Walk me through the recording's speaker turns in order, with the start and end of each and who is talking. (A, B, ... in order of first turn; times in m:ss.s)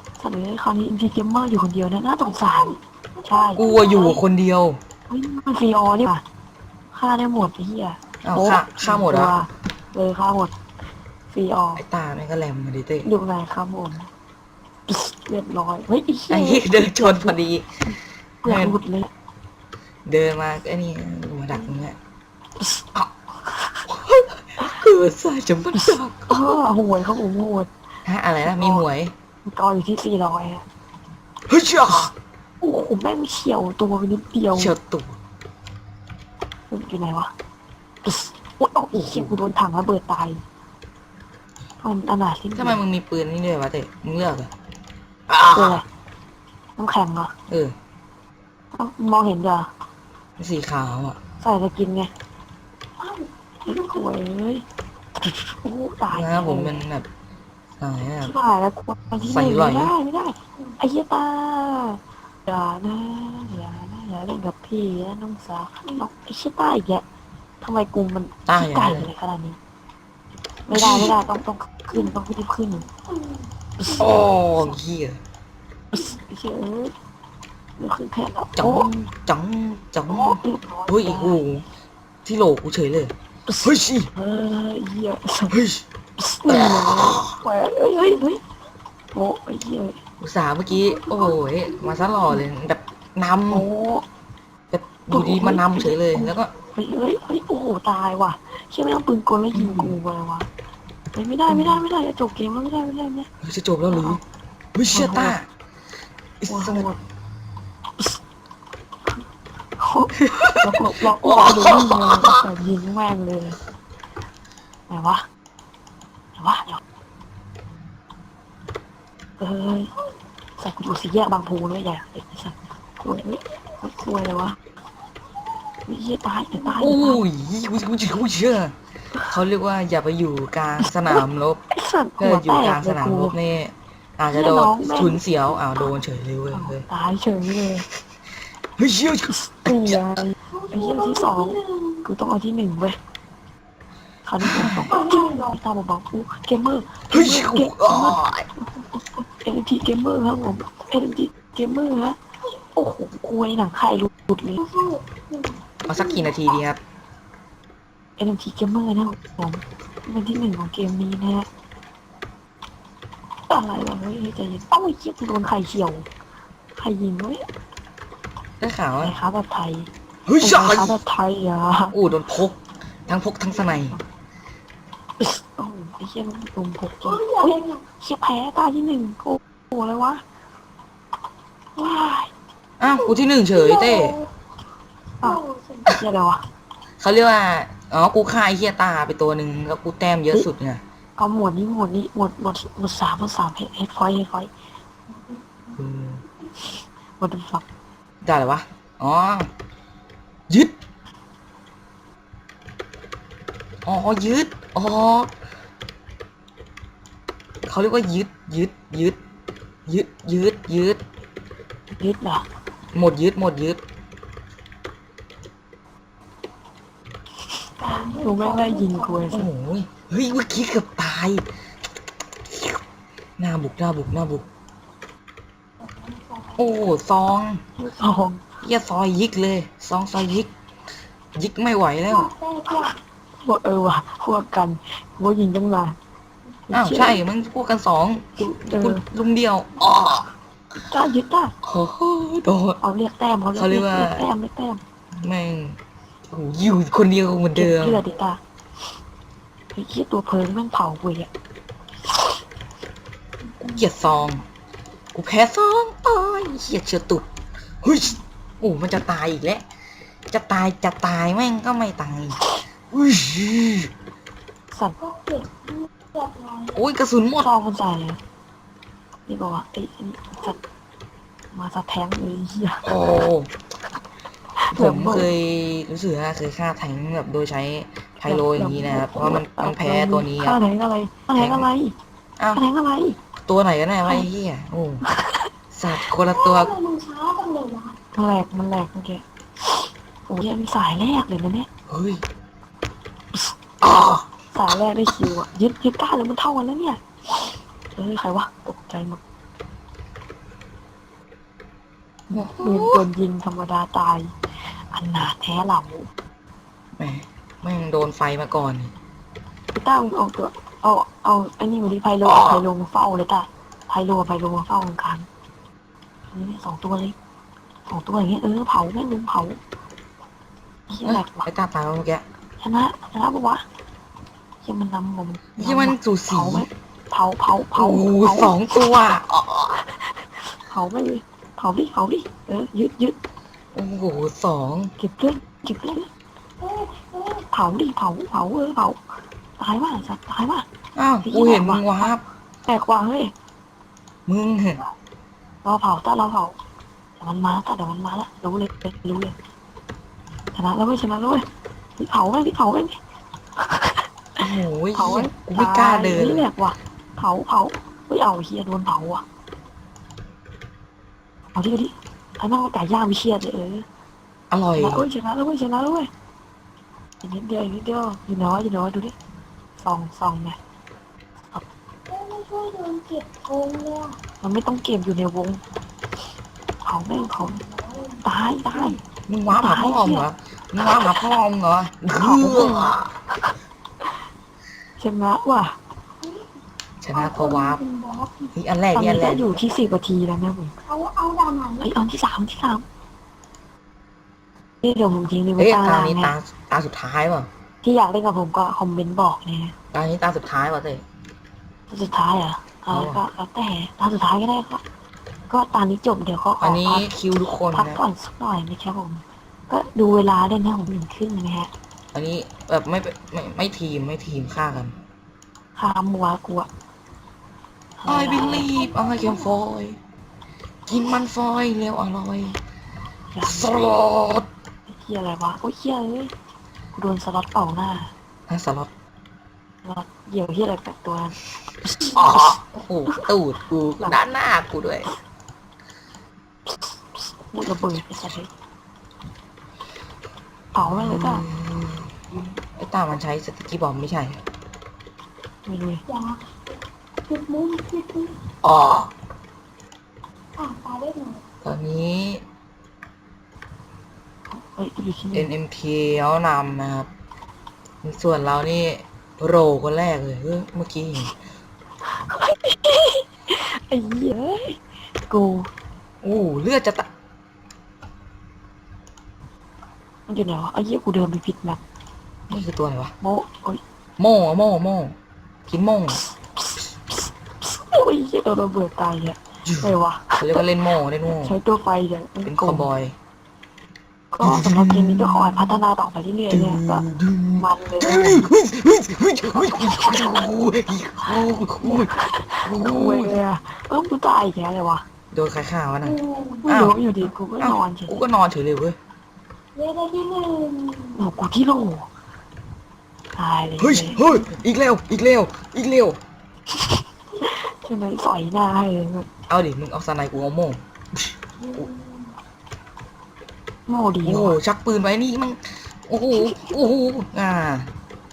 0:00.2-0:03.7 A
0:03.5-0:04.8 B
0:05.1-0:06.2 A
0:06.9-0:10.5 A
0:08.2-0:09.3 B
0:11.3-0:11.8 A
0:11.8-0:13.1 B
0:13.0-0:14.1 A
0:14.9-0:17.4 A
0:16.3-0:17.8 B
0:18.4-0:19.1 A
0:18.4-0:18.8 B
0:20.0-0:22.0 B
0:23.4-0:23.8 A
0:23.9-0:26.6 B
0:25.7-0:27.7 A
0:28.0-0:29.1 B
0:28.4-0:28.8 A
0:29.4-0:30.6 A
0:31.5-0:32.1 B
0:32.6-0:34.7 A
0:34.5-0:35.2 B
0:36.7-0:37.3 A
0:38.0-0:40.4 A
0:38.9-0:39.3 B
0:41.8-0:42.8 A
0:42.6-0:44.5 B
0:45.3-0:45.8 B
0:45.5-0:45.8 A
0:46.8-0:47.3 A
0:47.5-0:47.7 B
0:48.7-0:49.7 A
0:50.4-0:51.2 B
0:51.4-0:52.1 A
0:53.6-0:54.6 A
0:55.2-0:56.8 A
0:56.1-0:57.1 B
0:57.8-0:58.3 B
0:58.2-1:07.0 A
0:59.2-0:59.9 B
1:07.6-1:09.6 A
1:08.5-1:09.1 B
1:10.7-1:12.9 A
1:10.7-1:11.2 B
1:13.8-1:14.6 A
1:13.9-1:15.2 B
1:15.9-1:16.9 A
1:17.8-1:18.9 A
1:18.6-1:21.6 B
1:20.1-1:21.4 A
1:22.2-1:23.1 B
1:23.5-1:25.6 A
1:23.6-1:24.1 B
1:25.5-1:25.8 B
1:26.2-1:28.4 A
1:26.5-1:27.4 B
1:29.1-1:30.0 A
1:30.2-1:33.7 B
1:33.5-1:34.0 A
1:34.7-1:36.5 B
1:35.1-1:40.5 A
1:39.5-1:40.0 B
1:41.1-1:43.3 A
1:41.5-1:41.8 B
1:43.4-1:44.2 B
1:43.9-1:44.2 A
1:44.7-1:45.5 B
1:44.9-1:45.4 A
1:46.4-1:46.9 B
1:46.5-1:47.0 A
1:49.8-1:53.6 A
1:50.2-1:52.4 B
1:54.9-1:55.2 A
1:56.4-1:56.8 A
1:59.4-1:59.9 A
2:00.6-2:04.6 A
2:05.8-2:07.2 A
2:06.6-2:11.6 B
2:10.8-2:13.4 A
2:12.2-2:16.8 B
2:14.3-2:15.2 A
2:16.5-2:17.8 A
2:18.8-2:20.0 B
2:19.3-2:23.0 A
2:24.2-2:32.2 A
2:24.4-2:25.0 B
2:27.1-2:28.5 B
2:32.7-2:34.9 A
2:35.9-2:36.8 B
2:38.2-2:41.5 A
2:43.5-2:46.0 A
2:46.8-2:47.4 A
2:48.6-2:49.2 B
2:49.0-2:51.9 A
2:50.2-2:51.0 B
2:51.9-2:54.0 B
2:55.2-3:00.2 A
3:01.8-3:02.3 A
3:02.8-3:04.2 B
3:05.2-3:06.4 A
3:05.5-3:05.8 C
3:07.0-3:10.8 B
3:11.2-3:14.5 A
3:15.8-3:16.2 B
3:17.2-3:17.6 A
3:18.2-3:19.5 B
3:20.5-3:20.7 B
3:23.8-3:25.3 B
3:27.7-3:29.2 B
3:29.9-3:31.0 B
3:32.0-3:32.4 A
3:32.9-3:33.8 B
3:37.8-3:39.5 A
3:37.9-3:39.0 C
3:39.2-3:41.4 B
3:42.5-3:42.8 B
3:43.4-3:44.5 B
3:46.5-3:47.6 B
3:47.8-3:48.4 A
3:48.6-3:50.5 B
3:51.3-3:52.3 B
3:53.4-3:56.0 A
3:56.7-3:57.2 A
3:56.7-4:00.3 B
3:58.4-3:59.0 A
4:00.9-4:01.5 A
4:01.6-4:02.8 B
4:02.8-4:04.8 A
4:03.5-4:04.3 B
4:05.2-4:08.0 B
4:07.5-4:08.4 A
4:09.7-4:11.3 A
4:13.6-4:14.4 B
4:15.1-4:17.3 B
4:17.8-4:19.6 B
4:20.3-4:23.9 B
4:24.7-4:25.1 A
4:25.4-4:26.7 C
4:26.7-4:27.5 B
4:27.4-4:28.2 A
4:29.3-4:30.6 A
4:31.5-4:32.9 A
4:32.8-4:33.5 B
4:34.6-4:35.3 A
4:34.7-4:40.6 B
4:38.2-4:41.9 A
4:41.3-4:41.7 B
4:42.5-4:43.2 A
4:43.5-4:45.0 B
4:45.1-4:45.4 A
4:45.7-4:46.8 B
4:46.5-4:47.9 C
4:48.1-4:51.7 A
4:51.9-4:52.2 B
4:53.3-4:59.2 A
4:53.8-4:54.2 B
5:02.3-5:04.3 A
5:02.3-5:03.0 B
5:04.9-5:06.1 A
5:07.0-5:08.9 B
5:09.7-5:15.3 A
5:16.3-5:17.1 A
5:17.9-5:19.6 A
5:20.9-5:21.5 A
5:21.0-5:22.2 B
5:22.6-5:23.6 A
5:24.6-5:28.6 A
5:25.6-5:26.7 B
5:27.7-5:29.7 B
5:30.5-5:33.2 A
5:33.7-5:34.9 B
5:35.0-5:36.1 A
5:37.3-5:39.0 A
5:39.6-5:40.6 A
5:40.9-5:42.2 B
5:41.2-5:42.1 A
5:42.7-5:43.3 A
5:44.3-5:44.8 B
5:45.6-5:46.6 A
5:47.2-5:49.3 A
5:50.5-5:51.4 A
5:52.0-5:53.0 A
5:53.6-5:54.4 A
5:54.4-5:56.5 B
5:54.9-5:59.2 A
6:01.5-6:03.8 A
6:04.5-6:05.0 B
6:04.8-6:06.1 A
6:07.2-6:09.1 A
6:09.8-6:10.6 A
6:12.1-6:14.2 C
6:14.4-6:15.6 A
6:16.8-6:19.0 A
6:19.1-6:23.1 B
6:19.5-6:20.2 A
6:20.8-6:21.1 A
6:22.2-6:22.9 A
6:25.0-6:25.8 A
6:27.0-6:27.8 B
6:27.3-6:28.5 C
6:28.5-6:29.5 B
6:28.9-6:30.8 A
6:30.9-6:31.8 C
6:31.8-6:32.8 A
6:34.8-6:36.3 A
6:35.6-6:37.5 B
6:37.8-6:39.7 A
6:39.9-6:41.0 B
6:41.9-6:44.8 A
6:42.9-6:43.2 B
6:45.5-6:47.1 A
6:46.6-6:48.0 B
6:47.7-6:51.7 A
6:52.1-6:54.9 B
6:55.8-6:56.7 A
6:58.0-6:58.7 A
6:58.0-7:00.0 B
7:00.9-7:02.6 B
7:03.3-7:03.9 A
7:03.4-7:04.5 B
7:04.9-7:06.3 A
7:06.9-7:08.1 A
7:08.5-7:08.9 B
7:09.8-7:12.5 A
7:12.0-7:15.1 B
7:16.7-7:18.5 A
7:20.7-7:21.4 A
7:20.8-7:22.1 B
7:22.7-7:24.4 B
7:25.6-7:26.0 A
7:27.3-7:28.4 C
7:28.6-7:29.1 B
7:30.6-7:31.4 C
7:31.6-7:32.4 B
7:34.5-7:35.5 A
7:35.3-7:37.1 B
7:38.0-7:41.4 B
7:42.0-7:45.7 A
7:46.2-7:47.1 B
7:50.3-7:51.8 A
7:52.5-7:53.1 B
7:53.2-7:53.8 A
7:54.2-7:55.1 B
7:55.7-7:56.2 B
7:56.1-8:00.6 A
7:59.6-8:01.6 B
8:01.3-8:02.9 A
8:02.5-8:03.1 B
8:04.3-8:07.0 A
8:04.4-8:05.8 B
8:06.5-8:12.1 B
8:07.6-8:08.5 A
8:09.7-8:10.2 A
8:11.8-8:15.0 A
8:12.6-8:13.4 B
8:15.3-8:17.0 B
8:16.1-8:16.5 C
8:16.6-8:18.2 A
8:17.6-8:19.0 B
8:19.8-8:21.2 C
8:21.1-8:22.1 A
8:23.4-8:24.2 A
8:23.8-8:26.2 B
8:26.7-8:29.3 A
8:29.5-8:30.8 B
8:33.9-8:34.6 A
8:34.2-8:37.9 B